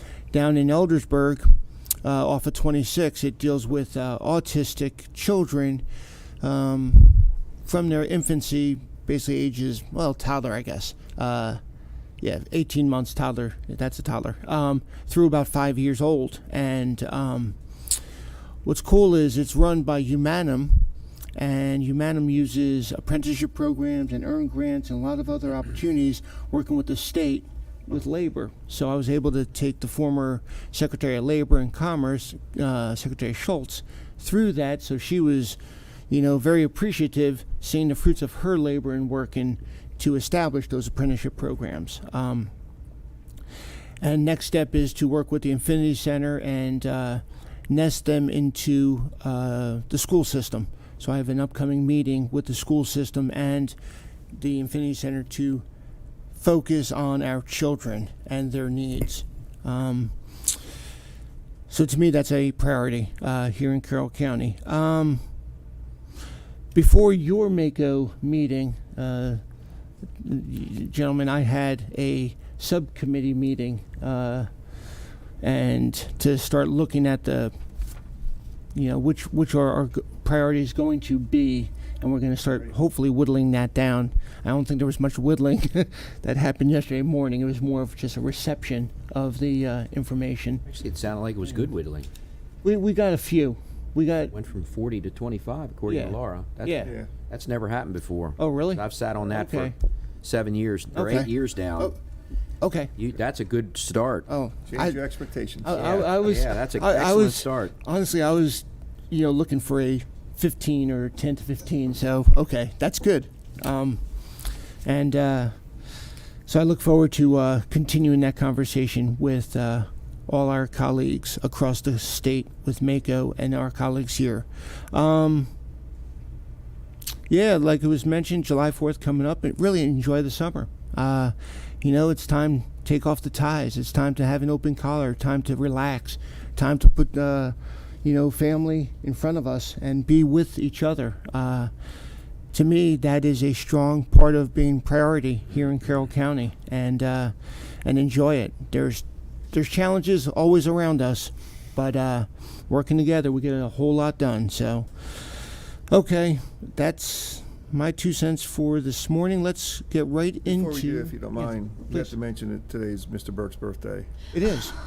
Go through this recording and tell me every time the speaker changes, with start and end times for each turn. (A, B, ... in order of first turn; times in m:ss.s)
0:00.3-0:01.5 A
0:02.0-0:05.8 A
0:06.4-0:11.6 A
0:12.2-0:17.6 A
0:18.6-0:35.6 A
0:36.1-0:42.5 A
0:44.0-0:53.8 A
0:54.3-0:55.6 A
0:56.4-1:00.2 A
1:01.7-1:05.2 A
1:06.7-1:09.4 A
1:10.2-1:14.5 A
1:15.4-1:17.5 A
1:18.8-1:30.6 A
1:30.7-1:32.1 B
1:32.6-1:34.3 A
1:34.3-1:41.9 B
1:35.9-1:36.9 A
1:38.4-1:39.8 A
1:40.9-1:42.0 A
1:42.6-1:42.9 A
1:43.0-1:44.3 B
1:44.3-1:45.0 A
1:44.7-1:45.8 C
1:45.6-1:54.0 A
1:45.7-1:47.7 B
1:54.8-1:55.6 A
1:56.4-2:05.5 A
2:07.3-2:21.7 A
2:22.5-2:42.1 A
2:40.5-2:44.1 C
2:44.3-2:44.8 A